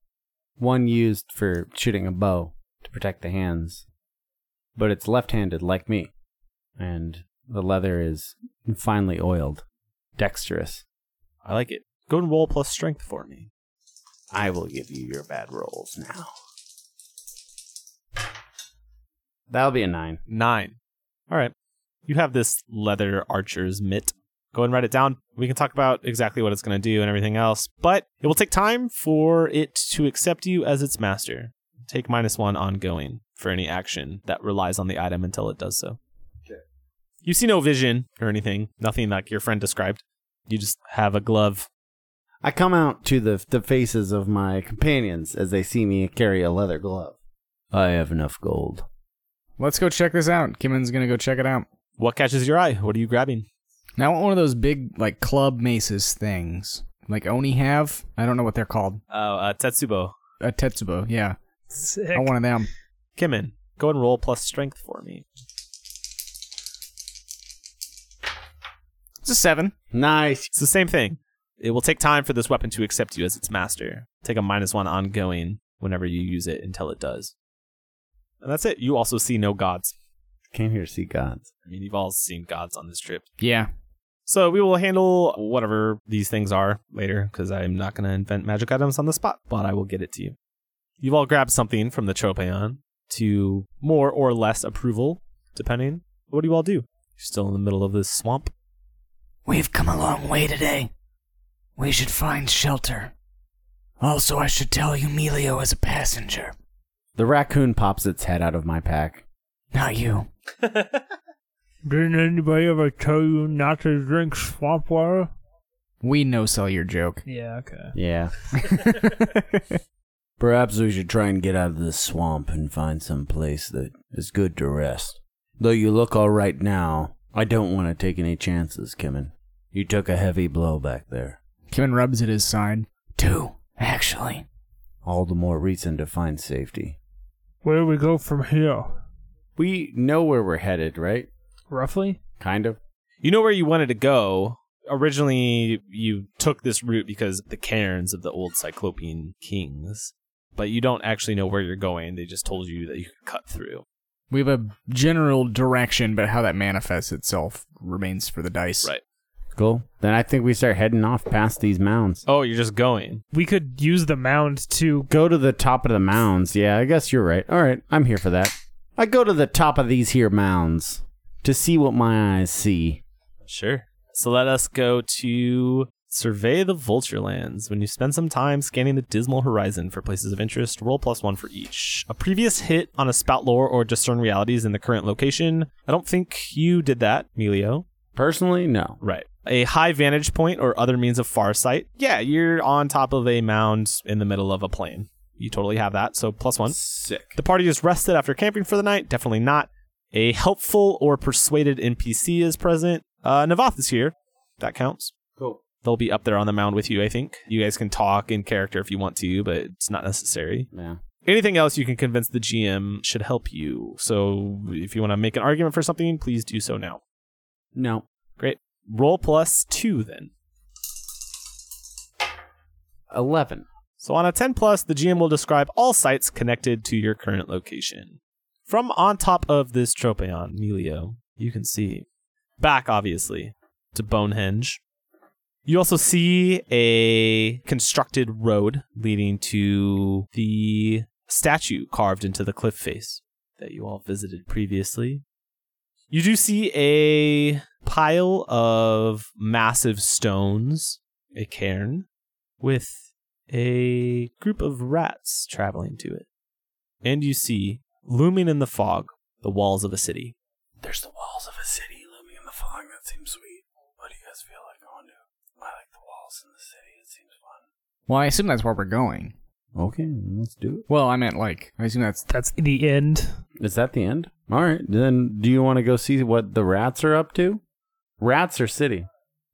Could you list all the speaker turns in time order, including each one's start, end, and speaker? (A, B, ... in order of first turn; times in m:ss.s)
0:00.6-0:03.8 A
0:04.8-0:06.1 A
0:06.8-0:09.6 A
0:10.2-0:10.8 A
0:11.4-0:13.5 B
0:14.3-0:16.3 A
0:19.5-0:20.2 A
0:20.3-0:20.8 B
0:22.1-0:36.0 B
0:37.2-0:41.7 B
0:42.4-0:47.2 A
0:47.7-0:48.9 A
0:49.6-0:51.7 C
0:52.0-0:53.5 B
0:54.0-0:59.0 C
0:59.1-1:00.1 B
1:00.4-1:01.4 C
1:01.7-1:02.3 D
1:02.1-1:02.7 C
1:03.2-1:05.2 B
1:09.2-1:09.7 C
1:09.9-1:10.5 A
1:10.5-1:17.3 B
1:18.4-1:19.9 B
1:20.5-1:21.5 A
1:21.7-1:23.3 B
1:23.4-1:23.7 C
1:24.3-1:30.4 B
1:31.0-1:38.5 B
1:39.5-1:40.9 C
1:41.8-1:43.1 C
1:44.0-1:46.5 C
1:47.2-1:49.2 A
1:49.7-1:50.3 C
1:51.8-1:55.3 D
1:56.0-1:57.2 C
1:57.3-1:58.0 D
1:58.0-1:58.3 A
1:59.0-1:59.8 C
2:00.4-2:11.4 A
2:11.7-2:14.4 C
2:15.0-2:17.0 A
2:17.6-2:19.0 D
2:19.6-2:21.3 A
2:21.7-2:22.2 D
2:22.4-2:22.8 A
2:23.2-2:33.8 B
2:34.3-2:38.9 C
2:39.6-2:42.2 A
2:42.3-2:43.2 B
2:43.3-2:45.1 D
2:45.1-2:53.0 A
2:53.5-3:07.8 B
3:08.2-3:09.0 A
3:09.0-3:16.8 B
3:16.7-3:17.4 A
3:17.4-3:25.1 B
3:25.8-3:30.7 B
3:30.7-3:31.0 A
3:31.2-3:37.0 B
3:37.8-3:38.0 A
3:38.4-3:40.3 B
3:43.1-3:43.7 A
3:44.0-3:52.1 B
3:52.6-3:54.8 B
3:55.7-4:05.2 B
4:06.1-4:12.1 B
4:12.6-4:16.3 B
4:17.0-4:20.4 B
4:20.8-4:27.6 A
4:28.1-4:29.3 C
4:29.8-4:30.8 A
4:30.9-4:32.2 C
4:32.3-4:33.3 D
4:33.6-4:37.6 A
4:38.2-4:39.1 A